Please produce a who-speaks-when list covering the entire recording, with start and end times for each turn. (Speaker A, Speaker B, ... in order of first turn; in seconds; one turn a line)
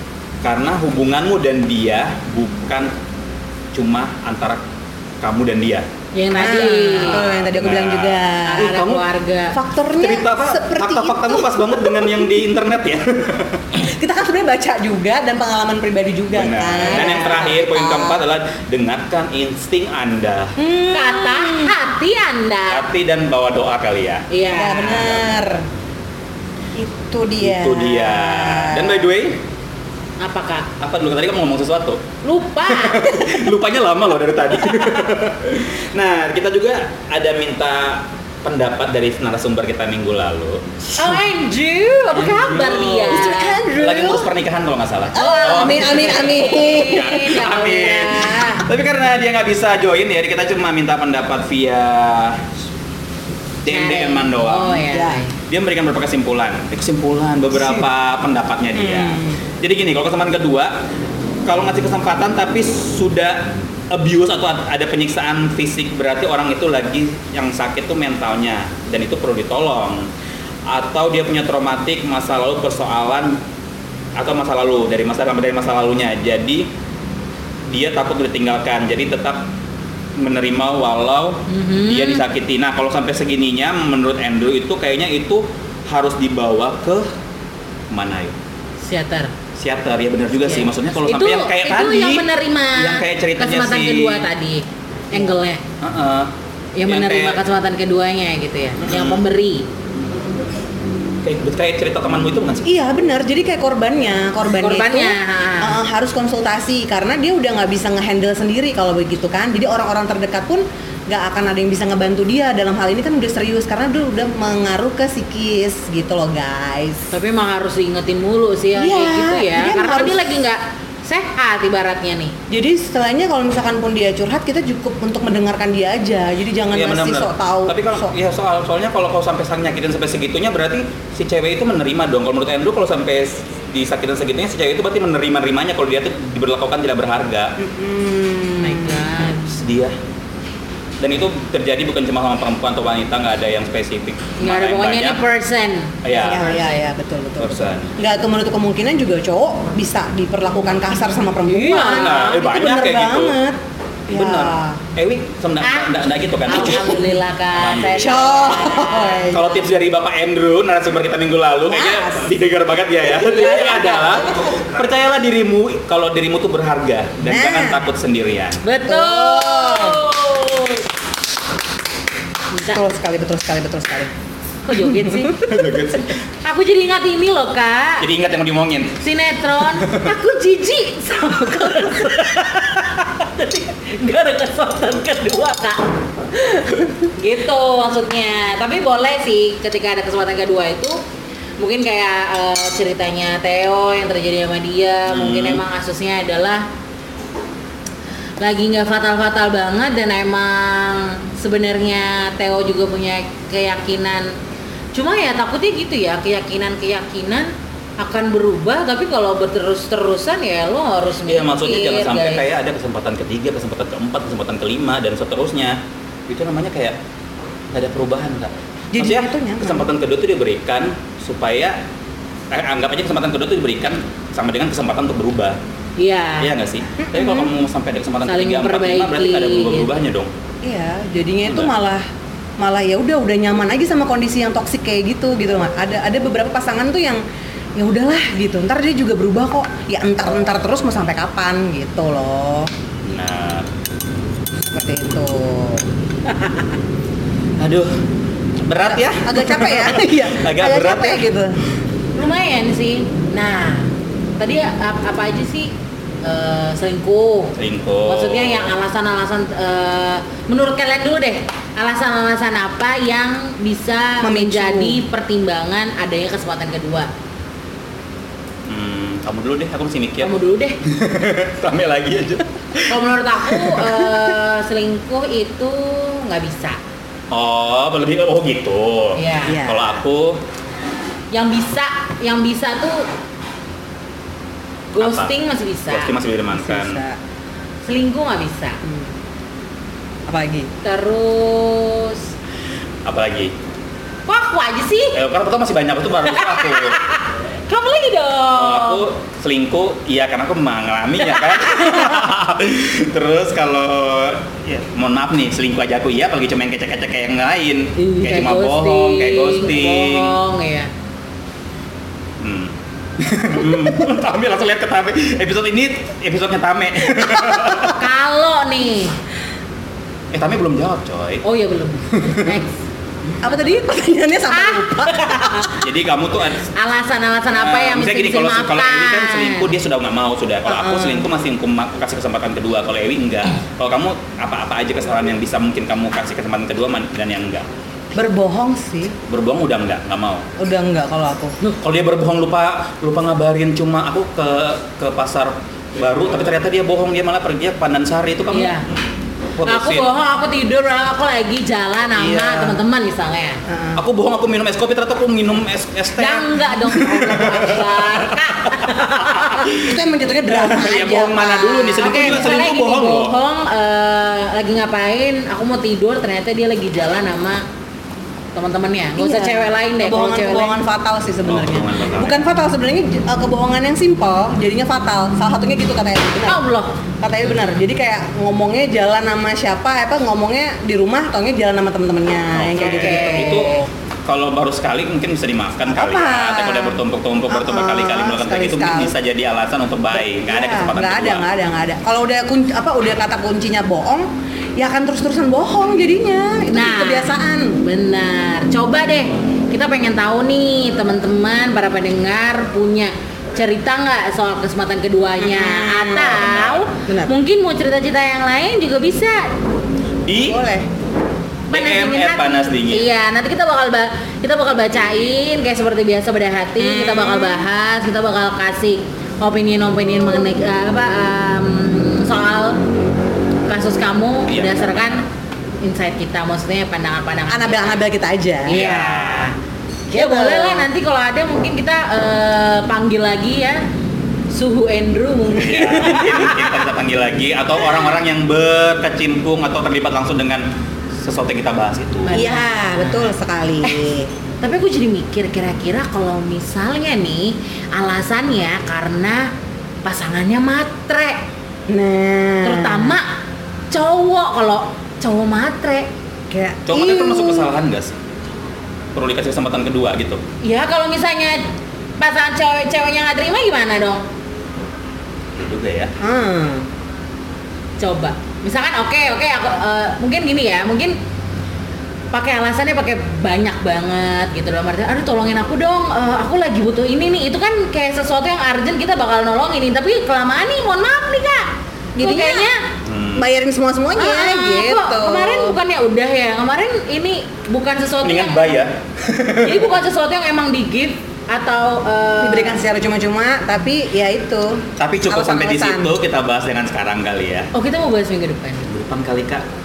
Speaker A: 0.4-2.9
Speaker A: 3.7-4.6
Speaker A: 5.2-5.9
Speaker B: 6.2-7.2
Speaker C: 6.4-8.8
Speaker A: 6.4-9.0
Speaker B: 8.4-9.6
Speaker C: 9.5-12.3
Speaker A: 10.0-13.7
Speaker C: 13.7-18.2
Speaker A: 16.3-20.6
Speaker C: 20.6-21.8
Speaker B: 20.9-22.9
Speaker A: 22.7-24.3
Speaker B: 24.3-25.1
Speaker C: 24.5-25.6
Speaker A: 24.8-25.3
Speaker C: 26.8-29.1
Speaker A: 27.4-29.4
Speaker B: 30.2-30.7
Speaker A: 30.8-32.0
Speaker B: 32.2-33.2
Speaker A: 32.7-40.9
Speaker B: 41.0-43.6
Speaker A: 42.1-52.5
Speaker C: 43.1-44.3
Speaker C: 45.1-47.3
Speaker B: 45.1-48.7
Speaker A: 53.6-54.9
Speaker B: 53.7-55.3
Speaker C: 54.9-55.2
Speaker A: 55.4-60.8
Speaker C: 58.8-59.4
Speaker A: 61.5-70.1
Speaker A: 70.7-73.4
Speaker A: 74.2-76.7
Speaker A: 77.7-79.5
Speaker A: 80.2-87.1
Speaker B: 81.5-82.2
Speaker A: 87.9-88.3
Speaker B: 88.8-89.3
Speaker A: 89.5-94.3
Speaker B: 90.5-95.6
Speaker A: 95.8-96.3
Speaker B: 96.8-99.7
Speaker A: 96.9-97.4
Speaker A: 98.8-99.2
Speaker A: 101.2-102.8
Speaker C: 102.6-117.1
Speaker B: 104.6-105.8
Speaker B: 117.1-122.4
Speaker C: 118.8-120.3
Speaker C: 122.5-128.1
Speaker A: 126.7-137.6
Speaker C: 137.6-139.3
Speaker B: 138.6-139.4
Speaker A: 139.5-139.9
Speaker A: 141.0-145.2
Speaker B: 144.4-146.8
Speaker A: 146.0-146.6
Speaker C: 146.1-153.6
Speaker A: 147.4-147.9
Speaker B: 151.5-152.4
Speaker A: 151.8-153.4
Speaker A: 154.1-168.6
Speaker C: 154.1-154.8
Speaker B: 155.6-159.4
Speaker C: 158.0-159.6
Speaker C: 161.7-162.4
Speaker C: 163.2-164.6
Speaker B: 163.2-164.2
Speaker C: 167.3-167.8
Speaker B: 168.6-170.9
Speaker C: 168.8-170.1
Speaker B: 172.5-172.8
Speaker C: 172.7-174.1
Speaker B: 174.6-175.5
Speaker C: 174.8-175.2
Speaker A: 175.4-176.2
Speaker B: 176.4-178.1
Speaker A: 178.0-179.0
Speaker B: 179.0-185.9
Speaker A: 179.8-180.1
Speaker B: 186.4-191.0
Speaker B: 191.6-196.7
Speaker A: 195.1-195.6
Speaker B: 198.4-204.4
Speaker B: 204.9-212.5
Speaker A: 211.3-217.0
Speaker A: 217.7-221.8
Speaker C: 218.9-219.9
Speaker A: 222.5-225.6
Speaker B: 226.0-226.5
Speaker A: 226.4-230.3
Speaker C: 227.0-227.5
Speaker B: 228.2-229.9
Speaker C: 230.6-232.1
Speaker A: 231.5-231.7
Speaker C: 232.6-237.2
Speaker C: 237.8-242.7
Speaker A: 243.1-243.7
Speaker C: 244.7-245.9
Speaker B: 246.3-246.7
Speaker A: 247.6-247.9
Speaker A: 248.7-251.3
Speaker C: 248.8-251.6
Speaker B: 252.2-255.7
Speaker B: 256.2-257.6
Speaker A: 257.6-258.7
Speaker B: 258.1-267.1
Speaker C: 264.2-265.0
Speaker A: 268.7-274.1
Speaker B: 270.2-270.8
Speaker B: 272.9-276.8
Speaker A: 277.3-280.4
Speaker B: 279.2-279.6
Speaker C: 279.5-280.0
Speaker B: 281.3-283.1
Speaker B: 284.9-286.1
Speaker A: 285.0-285.3
Speaker A: 285.9-287.0
Speaker C: 286.5-287.2
Speaker B: 287.9-288.8
Speaker C: 288.8-289.1
Speaker C: 290.3-290.7
Speaker B: 290.8-292.3
Speaker A: 293.1-293.5
Speaker B: 294.3-295.2
Speaker A: 295.1-297.0
Speaker B: 296.3-299.1
Speaker A: 298.6-310.4
Speaker B: 301.2-302.2
Speaker B: 308.0-310.9
Speaker A: 312.4-318.0
Speaker B: 317.9-319.2
Speaker A: 320.3-321.4
Speaker B: 321.4-322.8
Speaker A: 322.2-322.6
Speaker C: 323.4-325.8
Speaker B: 324.5-325.8
Speaker A: 325.8-326.7
Speaker B: 326.7-329.7
Speaker A: 327.5-337.7
Speaker C: 330.7-331.3
Speaker C: 338.1-339.2
Speaker A: 339.3-340.5
Speaker C: 340.6-341.6
Speaker A: 341.8-348.9
Speaker B: 348.5-348.9
Speaker A: 349.6-350.1
Speaker B: 349.6-353.6
Speaker C: 352.5-352.7
Speaker C: 353.7-354.0
Speaker A: 354.0-363.4
Speaker B: 356.2-359.7
Speaker C: 359.8-362.7
Speaker B: 362.0-367.6
Speaker B: 368.6-370.8
Speaker C: 369.2-376.6
Speaker A: 371.5-372.5
Speaker B: 376.5-377.0
Speaker C: 377.2-383.9
Speaker A: 382.5-383.7
Speaker B: 382.8-383.8
Speaker A: 384.3-391.4
Speaker C: 385.9-387.0
Speaker C: 387.5-389.1
Speaker C: 390.2-397.8
Speaker B: 396.7-409.5
Speaker C: 405.4-406.4
Speaker A: 406.2-406.9
Speaker C: 407.1-407.3
Speaker A: 410.3-410.6
Speaker C: 410.5-410.9
Speaker B: 411.7-422.8
Speaker A: 411.7-413.1
Speaker C: 416.8-417.7
Speaker B: 423.7-425.2
Speaker A: 424.5-425.2
Speaker B: 425.8-428.0
Speaker C: 427.5-428.9
Speaker B: 428.6-429.6
Speaker A: 428.7-429.5
Speaker C: 430.1-430.9
Speaker B: 430.1-433.8
Speaker B: 434.5-436.8
Speaker A: 435.5-440.7
Speaker A: 441.2-442.5
Speaker B: 442.2-443.3
Speaker C: 442.3-444.3
Speaker B: 444.6-449.5
Speaker B: 450.1-451.4
Speaker C: 451.9-453.2
Speaker B: 452.6-453.3
Speaker B: 453.9-456.1
Speaker C: 456.5-457.7
Speaker A: 456.9-458.2
Speaker A: 459.1-460.4
Speaker B: 460.6-461.6
Speaker B: 462.2-464.2
Speaker A: 465.6-466.1
Speaker C: 466.2-466.9
Speaker B: 468.0-471.2
Speaker B: 472.3-482.8
Speaker C: 482.2-482.7
Speaker A: 483.1-483.5
Speaker C: 483.4-485.8
Speaker B: 484.1-488.8
Speaker A: 488.2-489.9
Speaker B: 489.6-492.8
Speaker C: 492.4-496.2
Speaker A: 495.0-497.7
Speaker B: 497.7-498.9
Speaker A: 498.9-499.6